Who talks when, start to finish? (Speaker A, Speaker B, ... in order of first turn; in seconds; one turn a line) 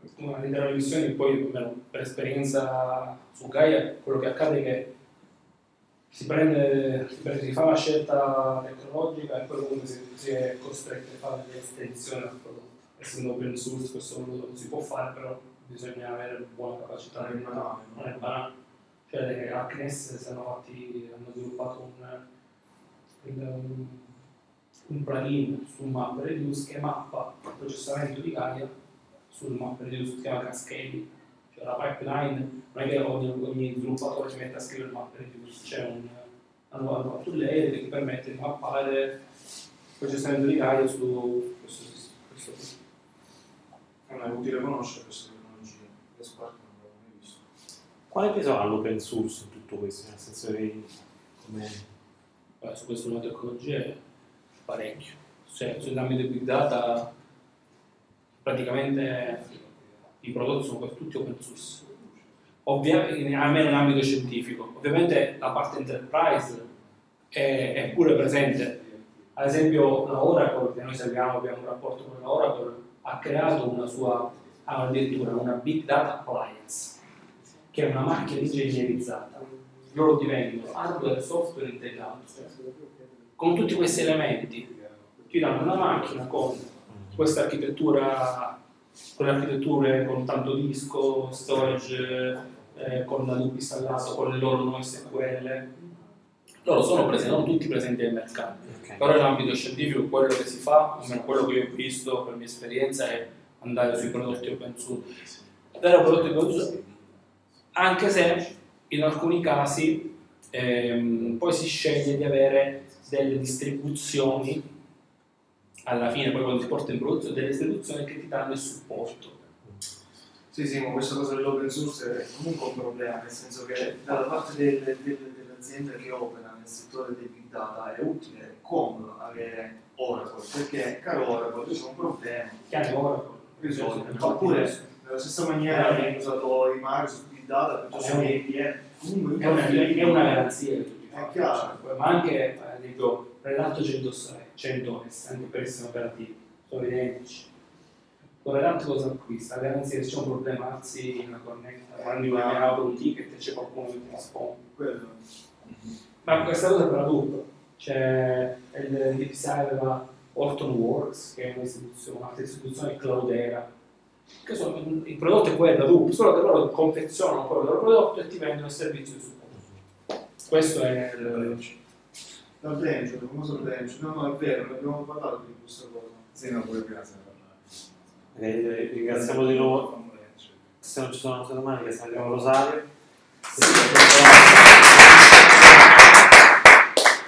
Speaker A: 0.1-4.9
Speaker A: 6.1-18.5
Speaker B: 17.1-18.2
Speaker A: 19.1-22.2
Speaker A: 23.2-24.1
Speaker A: 24.9-28.7
Speaker A: 29.3-39.2
Speaker A: 40.0-42.7
Speaker B: 44.1-47.4
Speaker C: 48.1-51.9
Speaker A: 52.6-54.0
Speaker A: 54.6-57.1
Speaker A: 58.4-59.6
Speaker A: 60.2-61.9
Speaker A: 62.6-66.7
Speaker A: 67.3-77.0
Speaker A: 77.7-82.5
Speaker D: 82.3-86.2
Speaker A: 83.4-84.7
Speaker A: 85.3-88.6
Speaker A: 89.2-95.7
Speaker A: 96.6-105.2
Speaker C: 98.7-99.0
Speaker A: 105.7-106.8
Speaker A: 107.7-114.7
Speaker A: 115.8-119.3
Speaker B: 120.5-132.7
Speaker A: 132.7-134.9
Speaker B: 133.6-140.5
Speaker A: 135.7-136.2
Speaker A: 138.0-138.4
Speaker A: 139.4-147.5
Speaker B: 141.1-141.8
Speaker A: 148.4-154.6
Speaker B: 152.0-152.7
Speaker B: 154.7-155.2
Speaker A: 156.2-163.7
Speaker A: 164.4-169.6
Speaker A: 170.4-171.7
Speaker B: 172.6-176.3
Speaker D: 176.3-177.8
Speaker C: 178.3-179.9
Speaker D: 179.0-180.6
Speaker C: 180.8-182.9
Speaker C: 183.5-185.0